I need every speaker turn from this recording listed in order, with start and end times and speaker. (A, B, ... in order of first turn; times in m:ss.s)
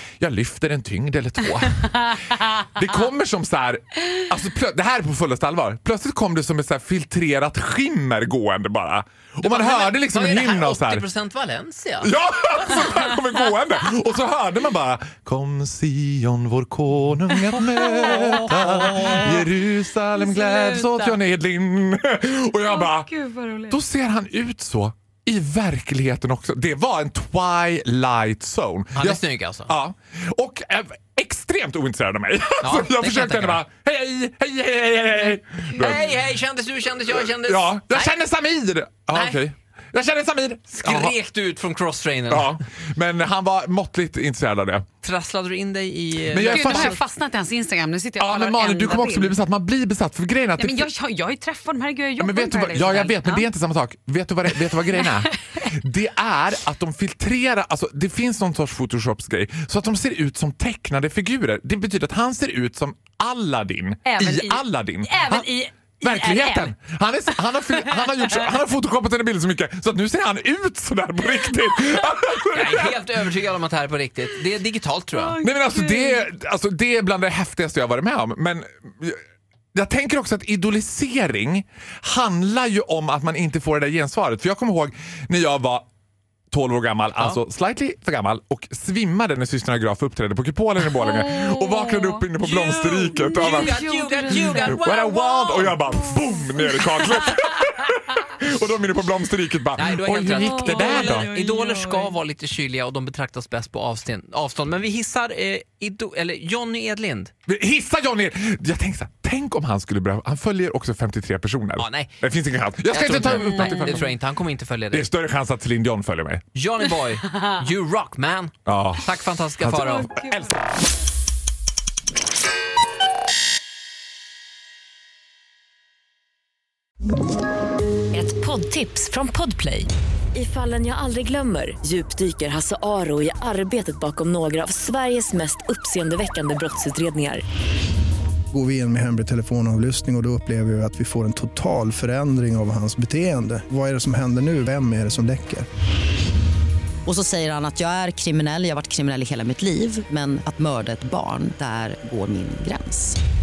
0:00.2-0:11.0 A
0:02.1-0:02.4 B
0:09.4-0:12.1 C
0:12.0-0:23.1 A
0:17.6-0:19.4 C
0:17.9-0:19.4 B
0:20.2-0:21.2 B
0:22.6-0:23.8 B
0:23.7-0:36.2 A
0:29.0-0:29.7 C
0:32.6-0:33.6 C
0:35.7-0:38.2 C
0:37.1-0:41.2 A
0:39.1-0:39.4 C
0:40.7-0:42.6 C
0:42.3-0:44.8 A
0:45.0-0:47.0 C
0:46.3-0:47.0 A
0:46.3-0:49.4 B
0:48.2-0:50.9 A
0:50.6-0:53.5 B
0:52.2-1:13.3 A
0:55.0-0:55.4 B
1:04.0-1:06.7 B
1:07.8-1:08.5 B
1:12.5-1:15.4 C
1:15.1-1:16.2 B
1:15.4-1:19.2 A
1:19.7-1:25.8 A
1:26.5-1:41.3 A
1:31.0-1:34.8 B
1:33.3-1:35.7 C
1:36.1-1:37.3 B
1:39.7-1:47.3 C
1:40.1-1:42.1 B
1:47.5-1:54.1 A
1:51.8-1:52.2 C
1:52.8-1:55.1 C
1:53.3-1:54.0 B
1:54.9-1:56.4 A
1:56.5-2:00.1 C
1:58.6-2:00.6 A
2:00.1-2:00.3 B
2:08.1-2:17.4 D
2:18.5-2:25.6 E
2:27.0-2:33.2 F